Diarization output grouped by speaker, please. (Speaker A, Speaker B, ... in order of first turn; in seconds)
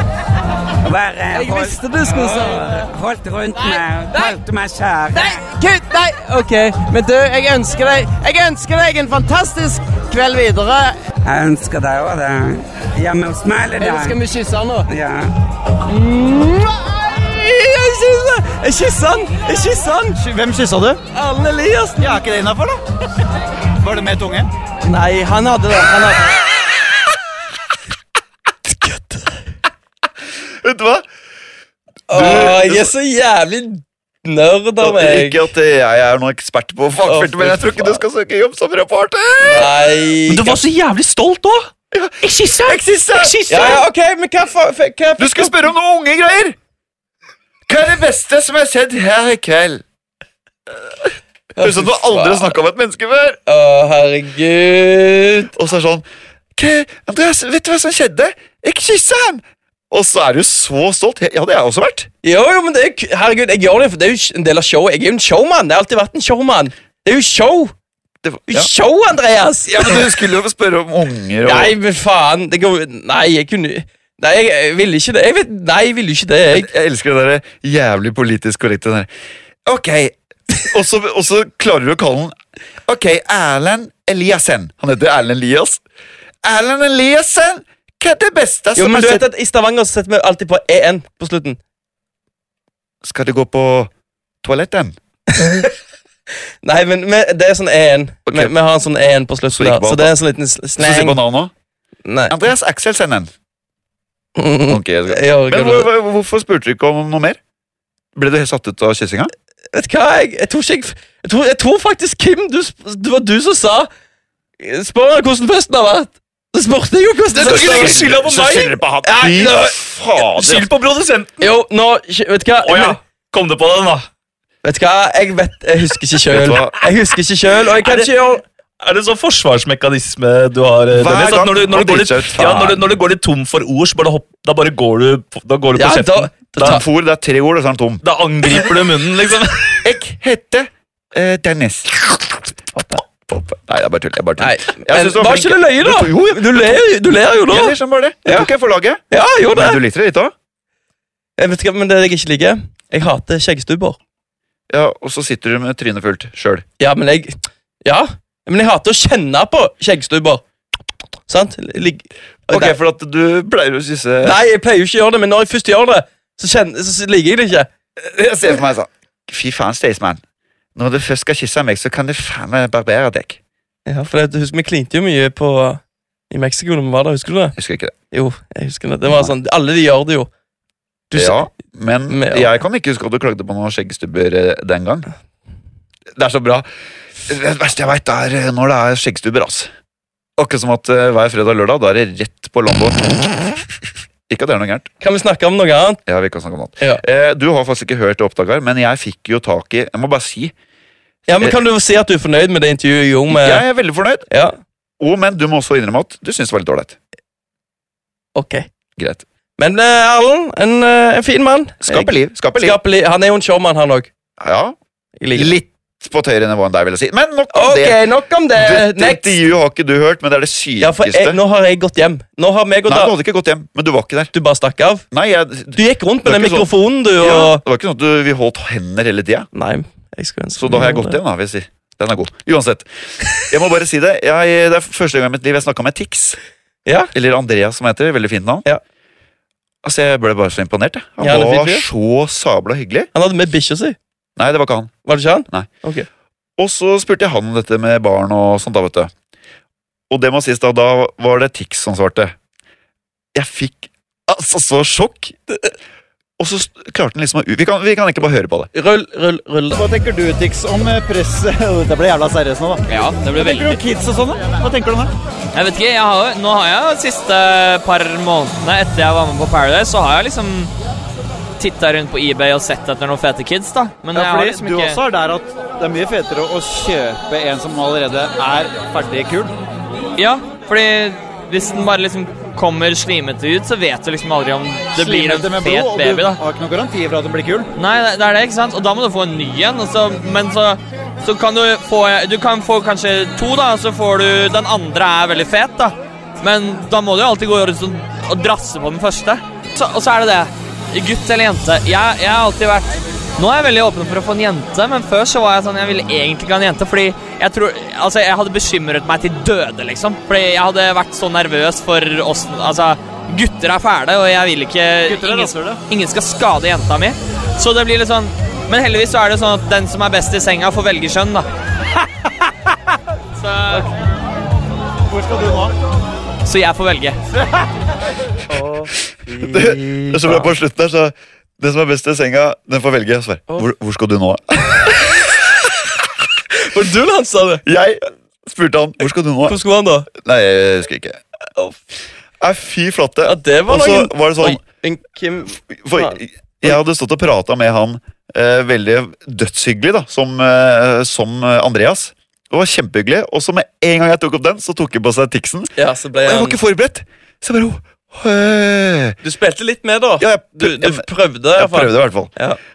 Speaker A: 0.8-5.4, 11.2-14.2, 14.9-15.3
Speaker B: 1.3-2.9, 3.6-4.4, 5.1-11.0, 13.8-14.9
Speaker C: 15.9-20.2, 21.1-22.1, 24.8-26.4, 28.7-29.4, 32.1-35.5, 37.0-38.0, 39.4-40.6, 43.5-45.6, 51.6-52.6, 53.5-55.5, 62.2-67.7, 68.5-70.1, 71.5-76.7, 88.8-91.6, 95.3-95.7, 96.6-101.2, 102.1-102.4, 104.4-105.9, 109.7-113.9, 114.6-118.2, 119.1-119.5, 121.4-123.0, 124.6-128.4, 135.8-136.8, 144.4-148.5, 149.1-149.8, 151.4-154.0, 156.8-160.4, 161.3-162.8, 164.2-167.7, 173.9-177.6, 178.1-180.3, 181.1-181.5, 182.1-182.5, 195.0-196.0, 201.3-203.7, 204.3-204.6, 208.3-208.7, 209.6-214.1, 215.2-215.6, 217.5-219.4, 220.8-223.1, 224.3-225.1, 225.8-227.6, 229.5-231.2, 236.9-237.1, 241.2-241.9, 243.1-244.0, 245.1-246.1, 258.7-259.8, 328.5-330.5, 336.5-337.6, 339.5-340.1, 343.2-346.8, 355.8-356.6, 359.2-362.6
Speaker D: 20.2-21.0, 22.0-22.8, 23.8-24.5, 259.7-265.1, 274.1-279.5, 285.0-287.7, 315.1-315.8, 325.1-325.7
Speaker E: 30.6-31.1, 32.1-32.9, 34.8-39.7, 41.9-43.8, 45.2-46.6, 47.7-49.8, 51.6-53.4, 55.5-62.1, 68.2-68.7, 69.7-71.8, 76.5-79.1, 79.7-85.8, 86.4-89.3, 93.0-93.9, 94.4-95.0, 98.3-98.5, 99.5-100.2, 100.8-101.5, 102.3-103.3, 104.7-107.4, 108.2-109.3, 117.4-120.7, 126.3-126.8, 130.9-132.9, 136.6-138.0, 139.8-142.4, 143.3-146.8, 147.5-150.3, 154.7-156.7, 162.5-164.4, 168.0-170.2, 170.8-173.4, 177.6-177.9, 181.1-185.1, 186.1-186.7, 187.2-189.7, 190.4-193.5, 194.3-194.9, 196.1-200.5, 203.3-204.2, 205.0-207.0, 209.0-209.2, 211.8-212.8, 214.4-214.8, 215.3-218.0, 218.5-221.4, 222.9-224.3, 225.1-229.5, 230.6-236.4, 237.1-238.7, 239.8-243.1, 244.4-244.9, 246.6-249.1, 250.1-252.4, 253.3-255.3, 256.4-258.7, 329.4-334.9, 337.7-339.6, 340.1-341.2, 342.4-344.6, 345.6-359.2, 360.2-362.3
Speaker F: 40.3-41.7, 42.2-43.8, 117.4-121.5, 122.6-124.1, 127.8-128.1, 128.8-136.8, 138.0-139.9
Speaker G: 262.9-263.8, 265.5-270.7, 271.6-275.0, 280.2-286.4, 287.8-321.4, 323.4-323.9, 326.4-327.2